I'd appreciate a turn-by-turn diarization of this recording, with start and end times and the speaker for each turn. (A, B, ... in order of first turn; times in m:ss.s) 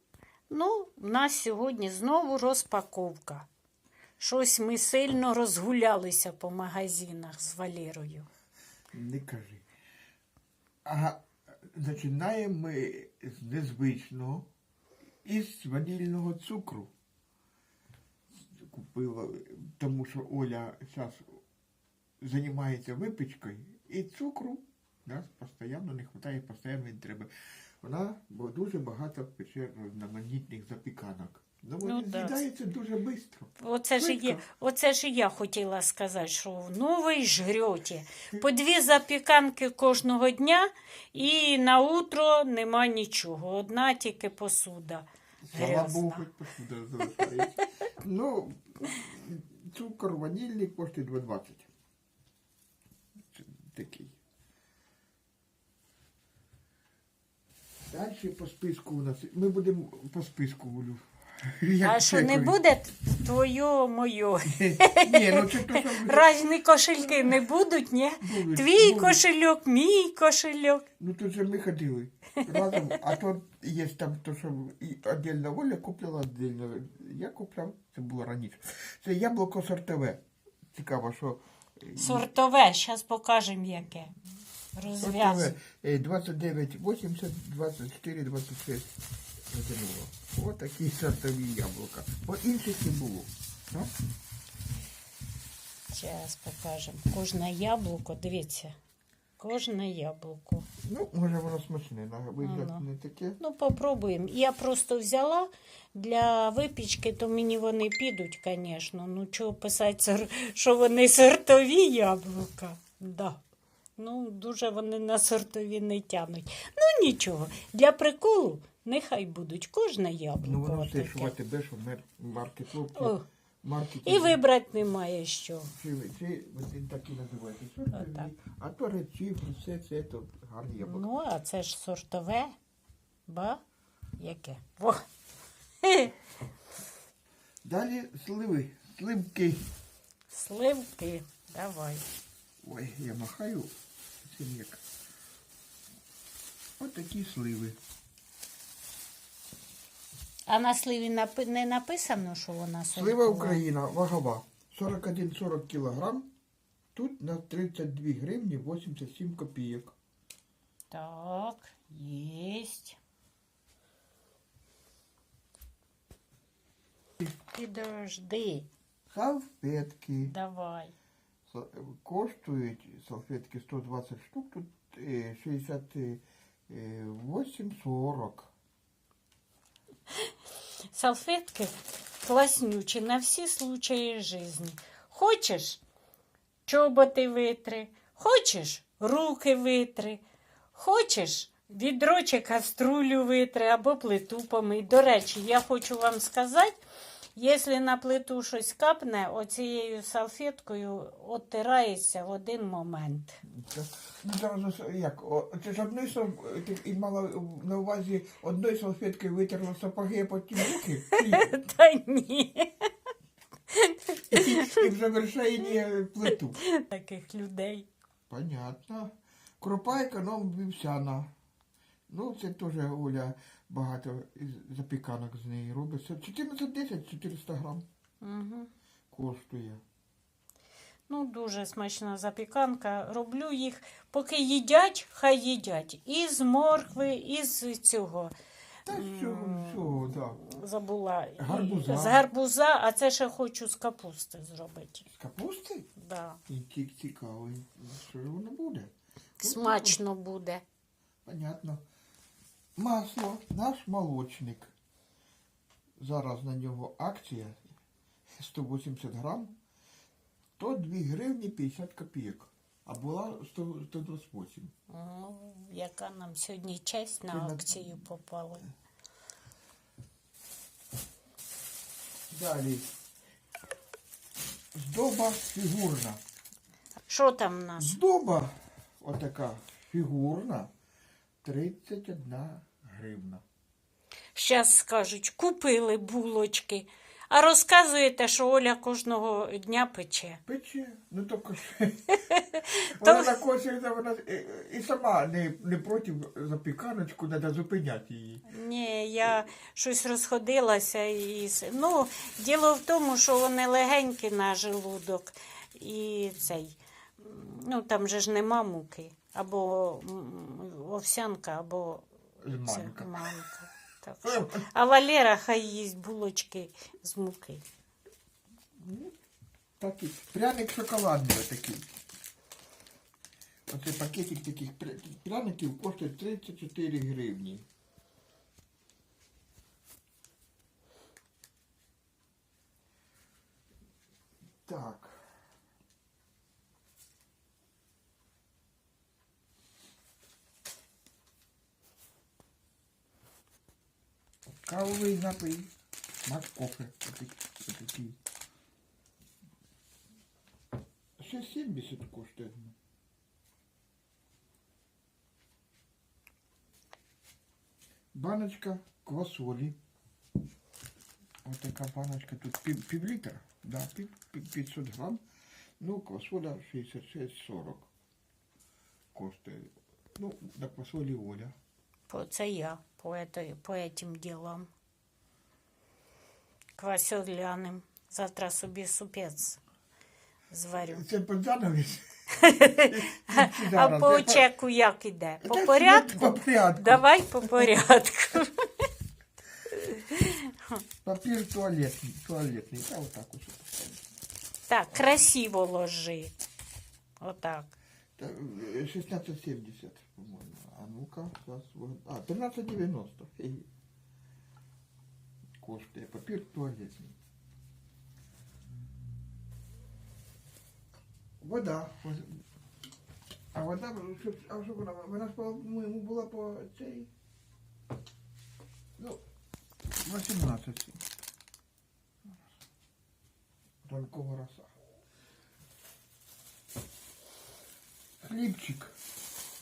0:00.5-0:03.4 A
0:04.2-0:08.3 A
0:08.9-0:09.6 B
0:10.8-0:14.5 B
0:15.2-0:16.9 B
0:18.4-0:21.4 B
0:22.2-0:27.3 B
0:27.8-0:34.4 B
0:31.8-0:32.4 A
0:33.6-0:46.3 A
0:45.5-0:51.7 B
0:53.3-0:54.2 B
0:57.9-1:02.6 B
1:01.8-1:10.8 A
1:04.5-1:06.3 B
1:07.0-1:07.4 B
1:08.2-1:09.2 B
1:11.0-1:20.2 B
1:12.6-1:13.1 A
1:20.7-1:22.3 B
1:22.0-1:24.1 A
1:24.8-1:25.6 A
1:24.9-1:28.9 B
1:29.5-1:33.9 B
1:35.9-1:38.7 A
1:39.4-1:40.6 A
1:40.8-1:43.4 B
1:42.4-1:42.8 A
1:43.4-1:53.4 A
1:54.0-2:01.3 A
2:00.4-2:04.4 B
2:02.9-2:03.2 A
2:04.0-2:05.7 A
2:05.7-2:11.1 B
2:07.9-2:08.3 A
2:10.8-2:12.5 A
2:13.3-2:13.6 A
2:14.2-2:15.0 A
2:15.8-2:16.1 A
2:17.6-2:19.7 B
2:20.3-2:22.0 A
2:22.6-2:23.7 B
2:24.2-2:24.8 B
2:26.8-2:27.8 B
2:30.5-2:33.6 A
2:32.9-2:36.3 B
2:36.9-2:39.9 B
2:40.9-2:43.0 A
2:47.4-2:48.7 A
2:49.1-2:50.3 B
2:50.2-2:50.9 A
2:51.5-2:58.5 B
3:00.9-3:05.8 A
3:06.6-3:10.2 A
3:10.7-3:16.7 A
3:17.4-3:23.4 A
3:23.4-3:31.6 B
3:30.6-3:32.9 A
3:33.7-3:34.8 A
3:34.3-3:36.6 B
3:36.3-3:37.9 A
3:38.3-3:41.3 B
3:42.1-3:47.8 B
3:48.2-3:48.7 A
3:49.1-3:49.8 B
3:51.1-3:58.3 A
3:58.9-4:00.4 B
3:58.9-4:05.0 A
4:01.4-4:02.2 B
4:05.0-4:05.9 B
4:06.0-4:06.4 A
4:06.5-4:10.0 B
4:09.4-4:10.6 A
4:11.2-4:11.8 B
4:12.8-4:14.7 B
4:16.0-4:17.7 B
4:18.4-4:19.5 B
4:20.6-4:24.7 B
4:24.9-4:28.7 A
4:27.3-4:28.0 B
4:32.3-4:32.9 B
4:34.7-4:36.2 B
4:37.1-4:38.0 A
4:37.8-4:40.7 B
4:41.4-4:43.4 B
4:44.3-4:50.4 A
4:50.5-4:52.1 B
4:52.2-4:53.4 A
4:52.9-4:58.4 B
4:58.4-5:12.1 A
5:12.4-5:13.4 B
5:12.6-5:17.6 A
5:14.2-5:14.6 B
5:18.8-5:19.1 B
5:19.8-5:21.9 B
5:23.7-5:27.6 B
5:34.6-5:35.2 B
5:44.5-5:45.7 B
5:46.2-5:48.2 B
5:51.2-5:52.7 B
5:58.1-5:59.8 B
6:01.4-6:05.2 B
6:05.8-6:07.9 B
6:09.1-6:11.5 B
6:12.1-6:14.7 A
6:16.8-6:19.6 A
6:20.5-6:21.1 A
6:20.8-6:24.4 B
6:22.4-6:28.9 A
6:25.4-6:27.7 B
6:29.7-6:30.7 A
6:31.0-6:34.0 B
6:34.7-6:36.3 A
6:34.9-6:35.2 B
6:37.2-6:37.7 A
6:38.2-6:43.7 B
6:45.6-6:47.1 B
6:51.4-6:52.4 B
6:53.5-6:57.1 B
6:59.0-6:59.2 B
7:00.0-7:01.0 B
7:03.8-7:04.7 B
7:08.2-7:08.9 B